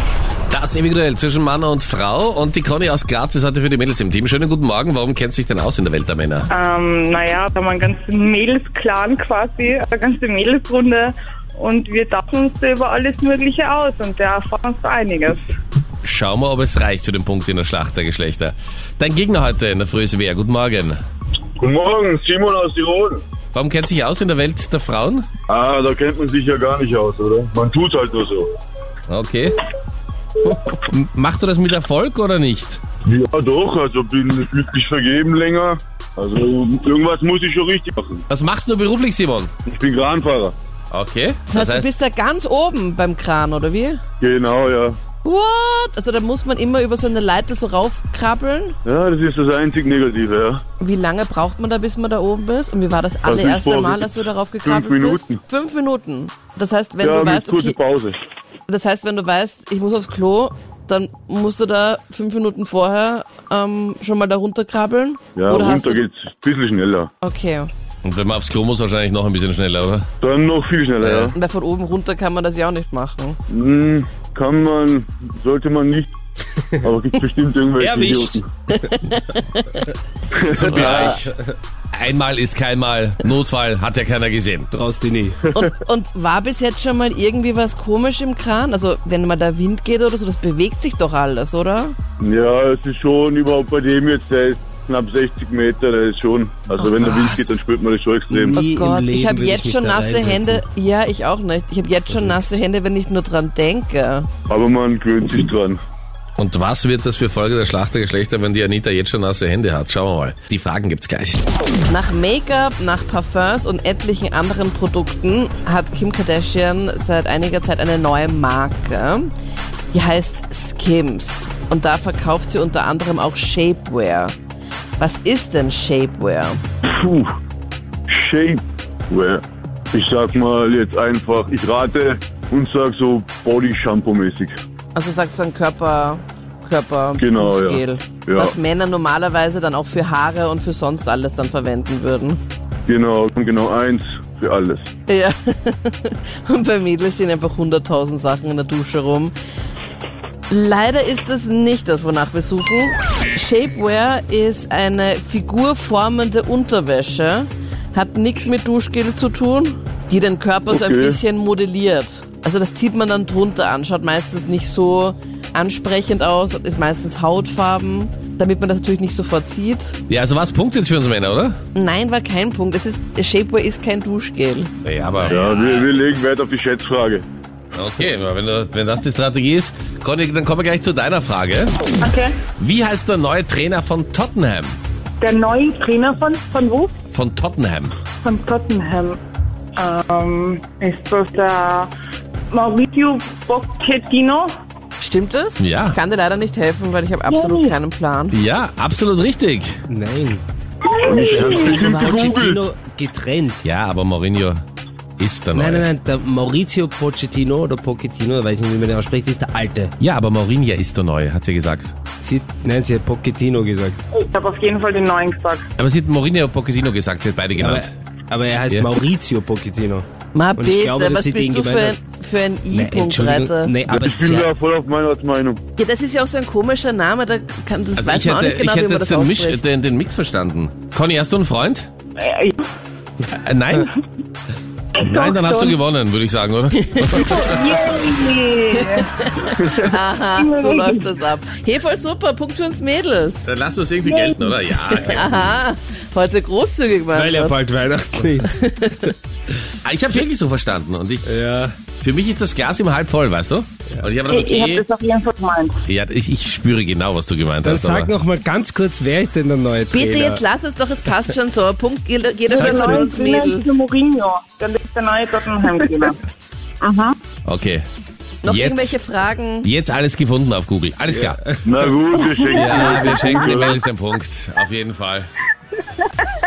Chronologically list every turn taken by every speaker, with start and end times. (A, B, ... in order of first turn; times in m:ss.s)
0:00.5-0:06.5 A
0:06.5-0:15.4 B
0:16.0-0:21.0 A
0:21.6-0:23.2 C
0:23.5-0:25.3 A
0:25.5-0:28.5 C
0:29.1-0:29.6 A
0:30.7-0:32.8 A
0:33.0-0:38.2 C
0:38.3-0:39.5 A
0:39.6-0:40.6 C
0:40.9-0:41.9 A
0:41.5-0:44.0 D
0:44.2-0:45.0 C
0:45.2-0:48.8 D
0:48.8-0:50.6 C
0:50.8-0:57.8 D
0:53.2-0:55.4 C
0:57.0-0:58.2 C
0:58.7-1:06.0 D
1:05.4-1:07.1 C
1:07.2-1:07.7 D
1:08.0-1:10.1 A
1:10.2-1:11.3 C
1:11.0-1:11.3 A
1:11.3-1:13.4 D
1:13.5-1:16.1 C
1:16.8-1:18.4 C
1:17.8-1:18.4 E
1:18.8-1:19.8 D
1:20.3-1:21.2 C
1:20.5-1:21.3 A
1:20.7-1:21.2 D
1:21.9-1:24.7 A
1:24.7-1:25.4 E
1:25.5-1:32.0 D
1:32.2-1:38.6 C
1:36.7-1:37.3 D
1:38.3-1:40.6 E
1:38.5-1:44.3 D
1:44.5-1:45.8 C
1:46.4-1:51.4 A
1:51.9-1:59.3 D
1:59.9-2:04.4 D
2:05.0-2:06.6 D
2:06.8-2:07.3 C
2:08.1-2:14.6 C
2:14.9-2:22.4 D
2:17.2-2:18.5 C
2:22.9-2:24.9 C
2:25.1-2:29.3 D
2:30.5-2:50.0 D
2:40.7-2:41.2 C
2:50.1-2:51.6 A
2:51.8-2:54.7 D
2:54.8-2:55.9 A
2:55.2-2:57.3 C
2:57.7-3:01.7 A
3:02.0-3:02.5 B
3:02.5-3:04.8 A
3:05.2-3:06.9 B
3:07.1-3:07.9 A
3:08.2-3:09.2 B
3:09.8-3:11.9 B
3:12.5-3:14.5 B
3:15.0-3:18.4 D
3:15.6-3:16.0 A
3:17.3-3:17.7 B
3:18.3-3:19.8 A
3:19.9-3:20.4 E
3:21.0-3:22.6 C
3:21.1-3:23.6 E
3:21.1-3:22.3 D
3:23.6-3:24.6 A
3:25.2-3:25.8 A
3:25.5-3:29.9 E
3:30.0-3:32.0 A
3:32.2-3:34.0 E
3:34.1-3:35.7 B
3:35.8-3:37.9 A
3:37.6-3:42.0 E
3:40.3-3:43.8 D
3:42.7-3:44.5 E
3:43.9-3:45.6 C
3:45.8-3:49.6 D
3:48.0-3:51.9 A
3:52.2-3:52.6 B
3:53.3-3:53.9 A
3:55.0-3:57.7 A
3:55.0-3:55.8 B
3:56.9-3:57.6 D
3:57.2-3:59.1 B
3:58.9-4:03.5 D
3:59.6-4:01.1 B
4:03.4-4:05.5 A
4:04.0-4:04.4 B
4:04.7-4:07.6 D
4:07.1-4:08.6 E
4:08.4-4:09.1 D
4:09.8-4:11.2 A
4:11.2-4:11.7 E
4:12.0-4:14.8 A
4:14.3-4:15.8 B
4:15.8-4:18.1 A
4:17.6-4:20.4 E
4:19.9-4:23.7 D
4:22.5-4:26.2 B
4:22.5-4:23.2 E
4:26.8-4:27.2 B
4:27.4-4:27.8 A
4:28.4-4:29.7 D
4:28.4-4:29.0 A
4:29.6-4:31.6 A
4:31.6-4:33.8 C
4:32.5-4:35.3 A